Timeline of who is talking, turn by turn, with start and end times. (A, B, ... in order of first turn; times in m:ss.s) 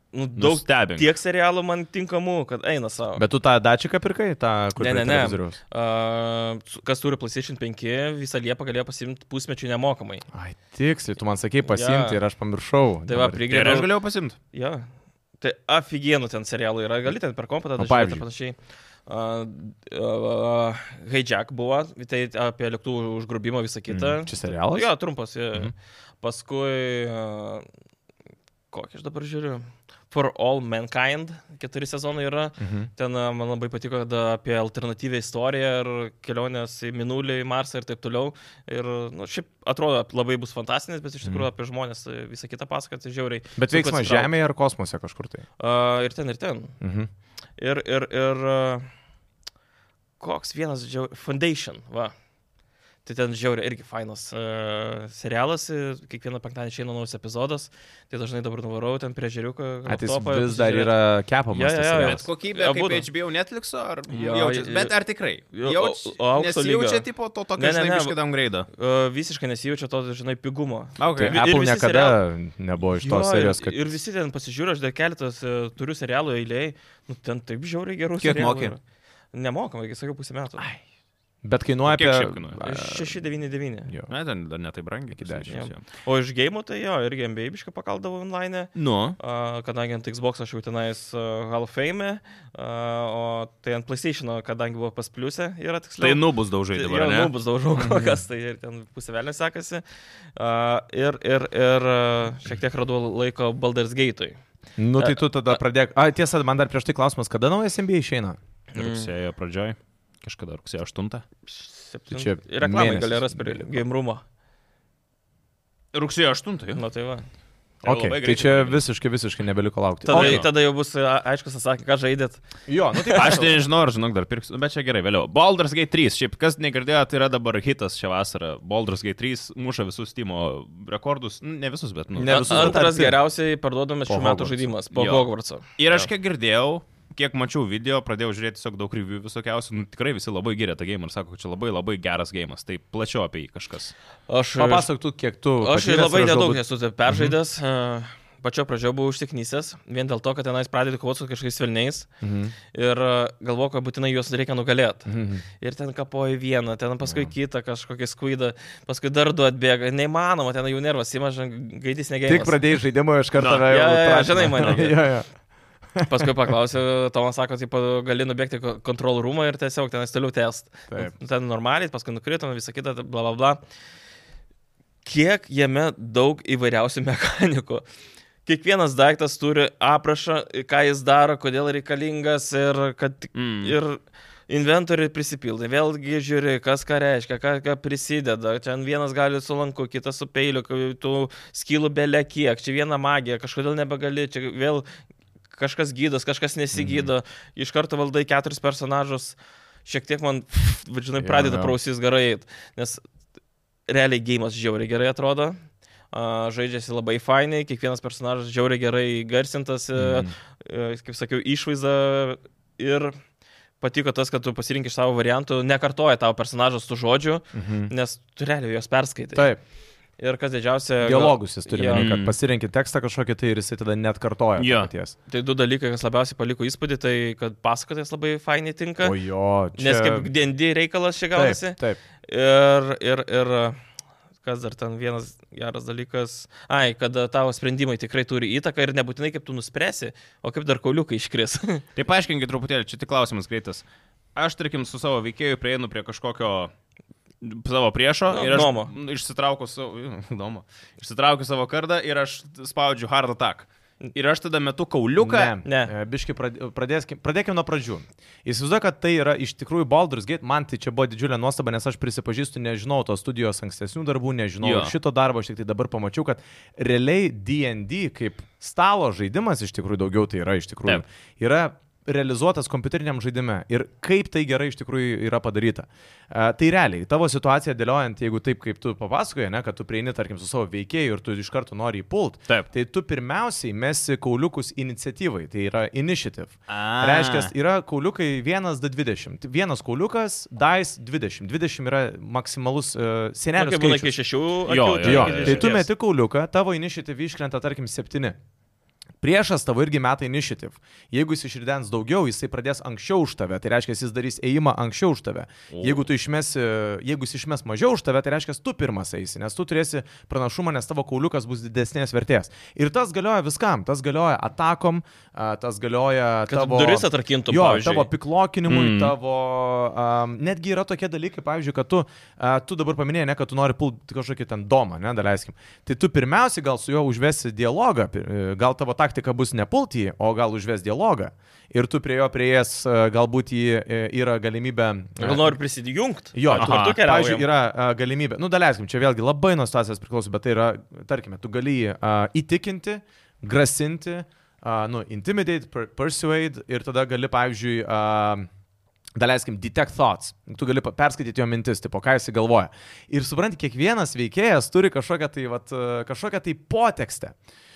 0:00.1-0:03.2 A
0:00.4-0:01.1 B
0:03.2-0:05.6 C
0:04.8-0:10.2 A
0:10.3-0:13.8 C
0:11.7-0:12.2 A
0:13.1-0:13.9 A
0:13.5-0:14.4 B
0:14.5-0:14.9 A
0:15.4-0:27.7 A
0:17.8-0:18.2 C
0:23.9-0:24.9 C
0:28.7-0:44.3 A
0:32.6-0:32.9 C
0:43.6-0:45.4 C
0:45.6-0:46.8 A
0:46.8-0:47.1 C
0:47.6-0:48.9 A
0:50.2-0:52.1 A
0:53.0-1:00.9 A
0:59.8-1:02.2 C
1:01.5-1:03.1 A
1:02.0-1:08.7 B
1:04.1-1:05.0 A
1:05.5-1:07.0 A
1:07.6-1:08.2 A
1:08.7-1:12.2 A
1:11.0-1:11.4 B
1:11.1-1:13.9 C
1:13.0-1:18.8 A
1:18.2-1:18.8 B
1:19.3-1:20.7 A
1:21.4-1:23.2 C
1:21.8-1:22.6 B
1:22.6-1:23.9 A
1:24.1-1:25.8 B
1:25.2-1:25.5 C
1:25.5-1:39.8 A
1:28.8-1:29.2 B
1:36.0-1:37.3 B
1:37.8-1:38.2 C
1:40.4-1:44.4 A
1:44.8-1:48.4 C
1:45.0-1:45.6 A
1:48.7-1:51.2 B
1:48.8-1:49.1 A
1:51.5-1:54.2 A
1:52.1-1:53.8 C
1:55.9-1:56.8 B
1:56.8-1:57.2 A
1:57.8-2:00.4 C
1:57.8-1:58.8 B
2:00.1-2:02.4 A
2:00.1-2:00.5 B
2:02.7-2:03.6 C
2:03.0-2:03.4 A
2:03.2-2:12.8 B
2:12.1-2:13.2 C
2:12.2-2:16.1 A
2:14.1-2:14.7 C
2:15.0-2:23.9 B
2:24.3-2:24.8 A
2:24.6-2:27.3 C
2:25.6-2:32.1 A
2:32.2-2:32.5 C
2:32.7-2:42.6 A
2:35.1-2:35.4 C
2:37.0-2:37.3 C
2:42.3-2:45.3 C
2:43.4-2:43.7 B
2:43.6-2:45.0 A
2:44.4-2:44.8 B
2:46.0-2:46.3 C
2:46.0-2:53.6 A
2:55.0-2:57.8 A
2:58.4-3:14.8 A
3:03.3-3:03.7 B
3:15.5-3:23.0 A
3:16.7-3:17.1 C
3:21.2-3:21.7 C
3:23.9-3:25.6 A
3:26.1-3:33.2 A
3:30.0-3:30.3 C
3:33.8-3:39.5 A
3:37.5-3:37.9 C
3:39.3-3:39.6 C
3:40.2-3:42.1 A
3:41.0-3:45.2 C
3:42.0-3:42.4 B
3:44.6-3:44.9 B
3:45.3-3:49.2 A
3:49.0-3:50.3 C
3:49.8-3:53.8 A
3:51.3-3:52.0 C
3:54.4-4:01.8 A
4:02.0-4:06.7 B
4:07.4-4:15.6 B
4:08.3-4:08.9 A
4:15.2-4:54.1 C
4:15.6-4:15.9 A
4:24.6-4:24.9 B
4:46.7-4:47.5 B
4:53.6-4:55.9 A
4:54.7-4:55.8 B
4:55.0-4:58.4 C
4:59.2-5:35.5 C
5:05.7-5:06.0 B
5:16.5-5:18.1 A
5:18.7-5:19.1 B
5:35.2-5:37.5 A
5:36.3-5:48.5 C
5:36.6-5:36.9 B
5:49.2-5:57.4 C